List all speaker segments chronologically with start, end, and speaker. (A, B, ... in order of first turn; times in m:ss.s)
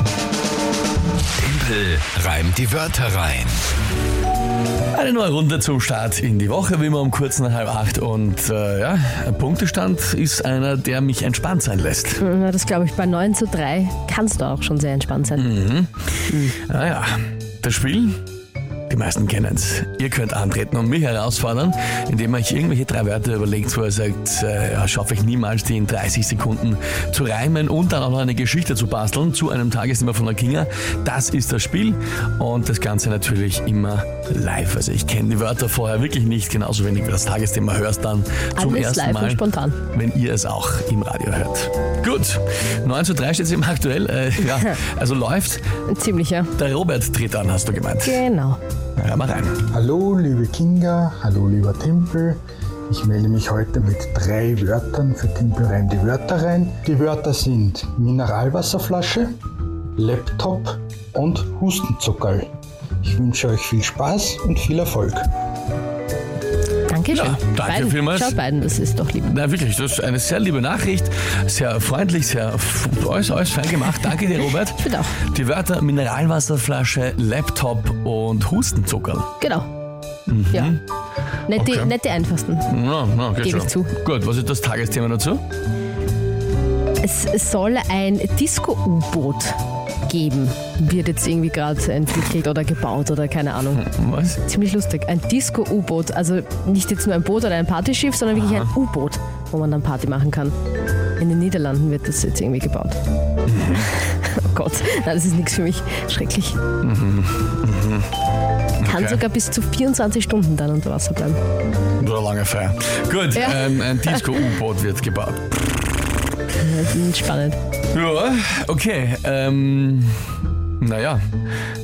0:01.4-0:03.6 A
0:04.9-0:12.2 B
0:12.2-0:15.6 C
0:15.4-0:15.9 B
0:16.3-0:16.6 C
0:16.5-0:18.2 B
0:18.9-0:45.6 B
0:38.6-0:39.8 C
0:45.9-0:46.5 C
0:46.6-0:48.2 B
0:48.0-0:48.6 C
0:49.0-0:49.6 B
0:49.7-0:59.3 D
1:00.0-1:02.5 D
1:03.0-1:05.3 D
1:06.9-1:09.4 C
1:07.1-1:08.3 B
1:09.3-1:19.3 B
1:14.8-1:15.2 C
1:19.4-1:19.7 C
1:20.3-1:20.8 B
1:20.5-1:20.8 C
1:21.5-1:22.7 C
1:21.6-1:21.9 B
1:22.7-1:25.4 B
1:23.4-1:23.9 C
1:27.0-1:40.6 C
1:33.8-1:34.4 B
1:41.2-1:43.0 C
1:43.5-1:43.9 B
1:43.8-1:46.6 C
1:46.8-1:48.1 B
1:48.8-1:49.2 B
1:48.8-1:51.4 C
1:52.0-1:55.7 B
1:53.3-1:54.2 C
1:56.5-1:57.6 C
1:57.9-2:00.2 B
2:00.8-2:01.2 B